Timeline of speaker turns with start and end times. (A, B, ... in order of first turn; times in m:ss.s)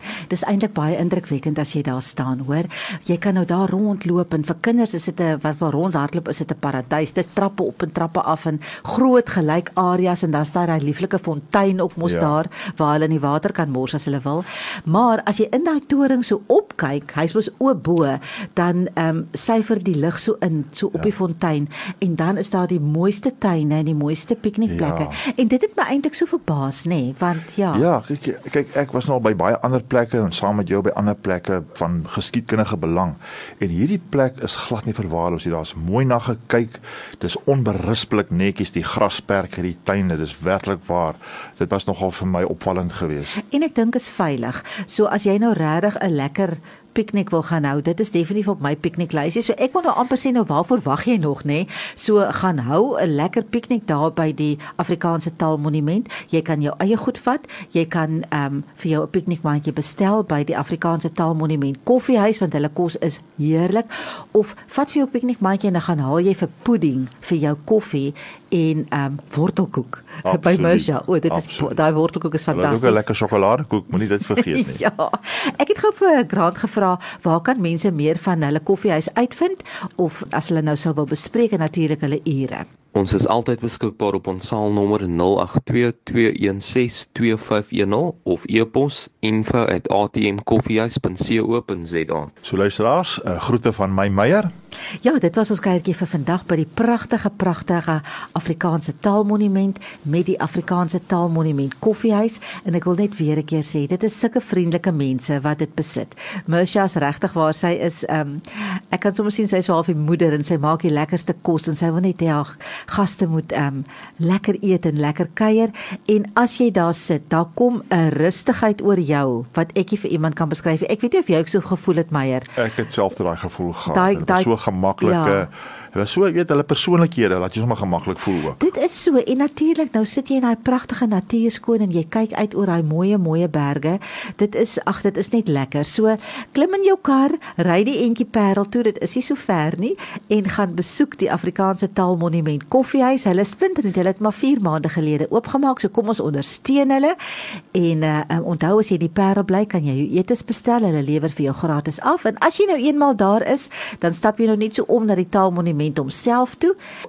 0:00.3-0:27.8 A
0:12.0-0:12.4 B
0:24.6-0:25.2 B
0:27.7-0:43.3 B
0:43.4-1:13.0 A
1:10.2-1:11.8 B
1:12.5-1:14.8 B
1:14.3-1:22.7 A
1:22.9-1:32.3 C
1:32.4-1:34.5 B
1:35.0-2:02.5 A
2:02.6-2:08.6 B
2:03.9-2:05.5 A
2:08.6-2:27.2 A
2:27.7-2:36.8 A